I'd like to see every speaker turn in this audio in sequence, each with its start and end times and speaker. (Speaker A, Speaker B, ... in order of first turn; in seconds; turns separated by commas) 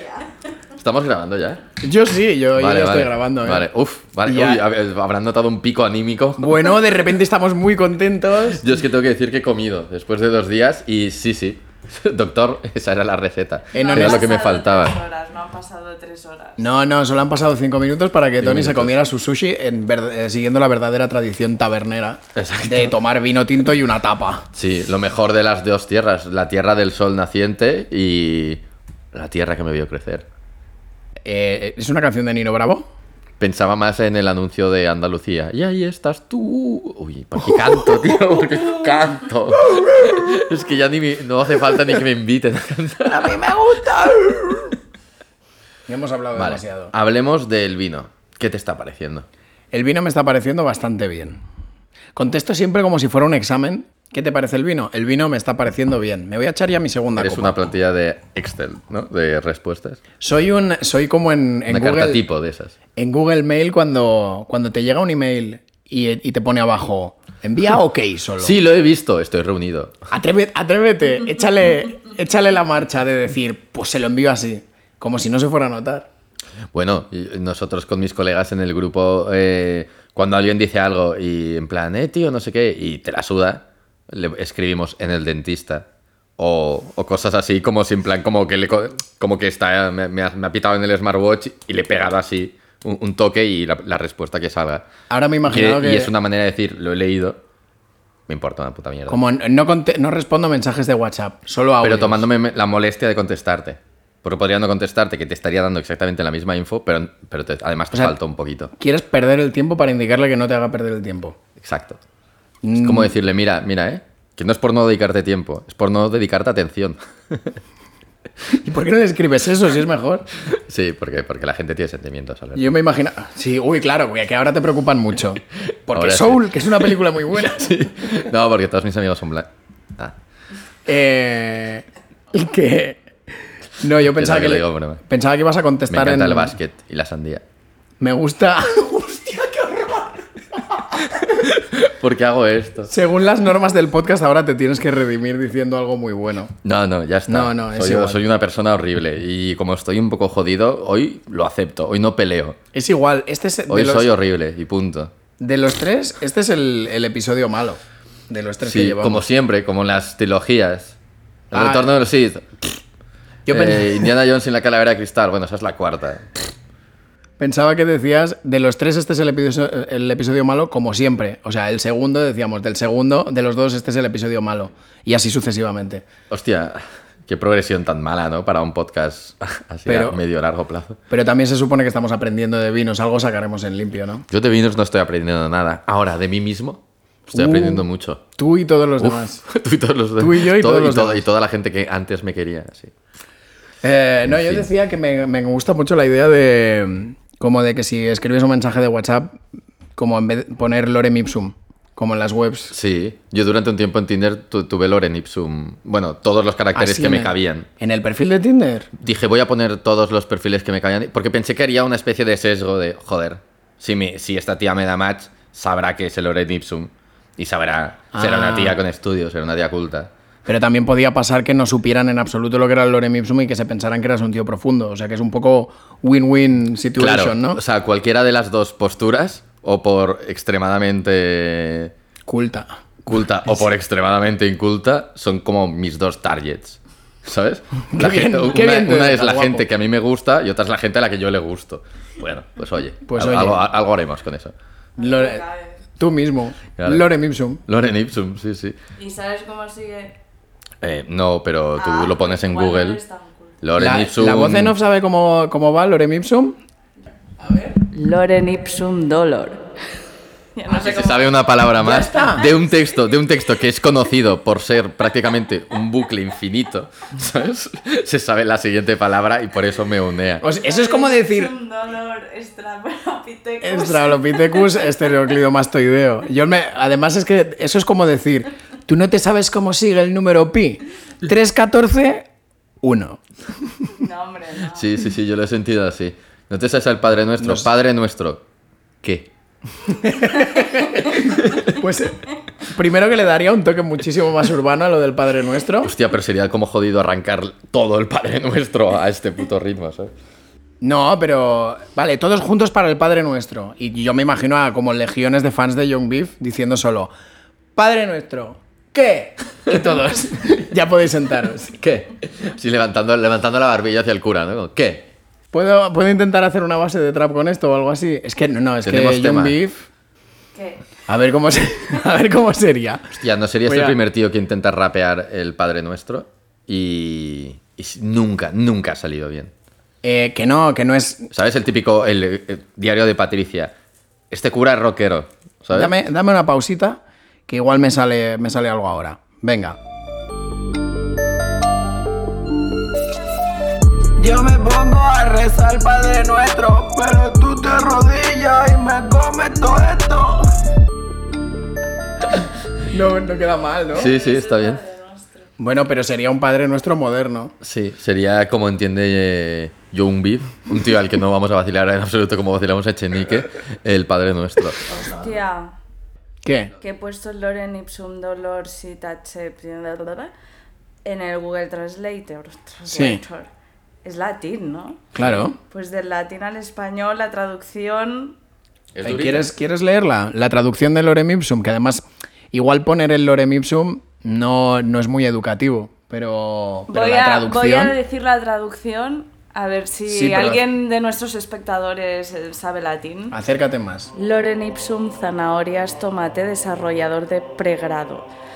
Speaker A: 0.7-1.6, Speaker B: 1.8-3.6, Speaker A: 2.5-6.7, Speaker B: 4.2-4.6, Speaker B: 6.4-8.7, Speaker A: 8.5-14.9, Speaker B: 13.7-14.3, Speaker C: 13.7-16.6, Speaker B: 16.6-24.5, Speaker A: 18.4-18.9, Speaker A: 22.3-22.9, Speaker A: 24.5-30.3, Speaker B: 31.2-32.9, Speaker A: 33.4-43.5, Speaker B: 43.0-44.8, Speaker B: 45.9-46.9, Speaker A: 46.4-49.3, Speaker B: 49.7-51.4, Speaker B: 52.1-57.5, Speaker A: 57.2-60.0, Speaker B: 60.2-62.2, Speaker A: 61.7-62.8, Speaker B: 63.0-68.6, Speaker A: 68.4-70.0, Speaker B: 70.1-76.1, Speaker A: 76.7-85.9, Speaker A: 86.4-94.9, Speaker B: 95.1-96.1, Speaker A: 95.5-97.4, Speaker A: 98.3-99.2, Speaker B: 99.1-102.2, Speaker A: 101.8-108.7, Speaker B: 108.8-111.4, Speaker A: 111.6-112.0, Speaker B: 112.6-113.1, Speaker A: 112.8-117.5, Speaker B: 118.5-120.3, Speaker A: 120.4-122.7, Speaker B: 122.5-127.9, Speaker A: 125.9-126.5, Speaker A: 127.5-130.1, Speaker B: 130.8-133.1, Speaker B: 133.8-136.6, Speaker A: 134.1-135.0, Speaker A: 135.9-137.4, Speaker B: 138.0-141.0, Speaker A: 141.2-142.9, Speaker B: 142.9-146.5, Speaker A: 146.6-152.6, Speaker B: 147.3-148.2, Speaker B: 152.7-154.1, Speaker A: 153.7-155.1, Speaker B: 155.4-159.2, Speaker A: 158.6-161.0, Speaker A: 161.5-162.5, Speaker B: 161.5-161.9, Speaker B: 163.5-164.1, Speaker A: 163.5-166.3, Speaker B: 167.4-176.0, Speaker A: 176.3-181.0, Speaker B: 179.8-180.2, Speaker B: 181.1-184.2, Speaker A: 184.3-186.8, Speaker B: 187.3-189.4, Speaker A: 187.3-188.2, Speaker A: 189.0-192.9, Speaker B: 190.2-191.2, Speaker B: 193.8-199.4, Speaker A: 194.3-194.7, Speaker B: 199.9-202.7, Speaker A: 202.7-207.7, Speaker B: 206.7-208.9, Speaker A: 208.9-220.1, Speaker B: 218.1-218.8, Speaker B: 220.4-227.6, Speaker A: 227.0-231.9, Speaker B: 232.3-232.8, Speaker A: 233.1-244.5, Speaker B: 237.9-239.6, Speaker B: 243.1-243.6, Speaker B: 245.0-245.4, Speaker C: 245.0-245.8, Speaker B: 246.0-247.6, Speaker A: 246.8-247.1, Speaker A: 247.7-248.8, Speaker C: 249.0-250.1, Speaker A: 250.8-253.0, Speaker C: 251.8-253.5, Speaker A: 253.6-254.8, Speaker B: 253.8-256.6, Speaker B: 257.4-257.7, Speaker C: 257.8-259.6, Speaker C: 260.6-262.9, Speaker A: 260.7-270.4, Speaker B: 261.8-262.4, Speaker B: 270.4-271.5, Speaker C: 270.6-275.1, Speaker B: 273.6-282.3, Speaker B: 282.8-283.9, Speaker C: 284.0-284.9, Speaker A: 284.7-288.4, Speaker B: 287.4-287.7, Speaker A: 289.0-289.3, Speaker B: 289.9-295.9, Speaker A: 295.8-300.1, Speaker B: 300.8-307.1, Speaker B: 307.8-311.8, Speaker A: 311.8-315.1, Speaker B: 315.5-319.9, Speaker A: 318.8-319.6, Speaker C: 320.5-320.8, Speaker B: 321.1-323.1, Speaker A: 323.1-329.5, Speaker B: 323.6-323.9, Speaker B: 330.0-331.3, Speaker A: 331.3-333.7, Speaker A: 334.3-335.9, Speaker B: 335.7-339.8, Speaker D: 344.2-350.5, Speaker B: 352.9-354.1, Speaker A: 353.9-354.8, Speaker C: 354.0-355.5, Speaker B: 355.6-357.5, Speaker A: 357.6-365.3, Speaker C: 364.9-365.7, Speaker B: 366.4-366.7, Speaker C: 366.8-370.3, Speaker C: 371.0-373.5, Speaker B: 372.9-373.2, Speaker C: 374.0-375.1, Speaker B: 375.1-375.6, Speaker A: 375.2-375.4, Speaker C: 375.6-378.4, Speaker A: 378.9-379.5, Speaker B: 379.0-387.9, Speaker C: 386.9-393.4, Speaker B: 390.1-390.6, Speaker B: 393.3-394.1, Speaker C: 394.1-398.3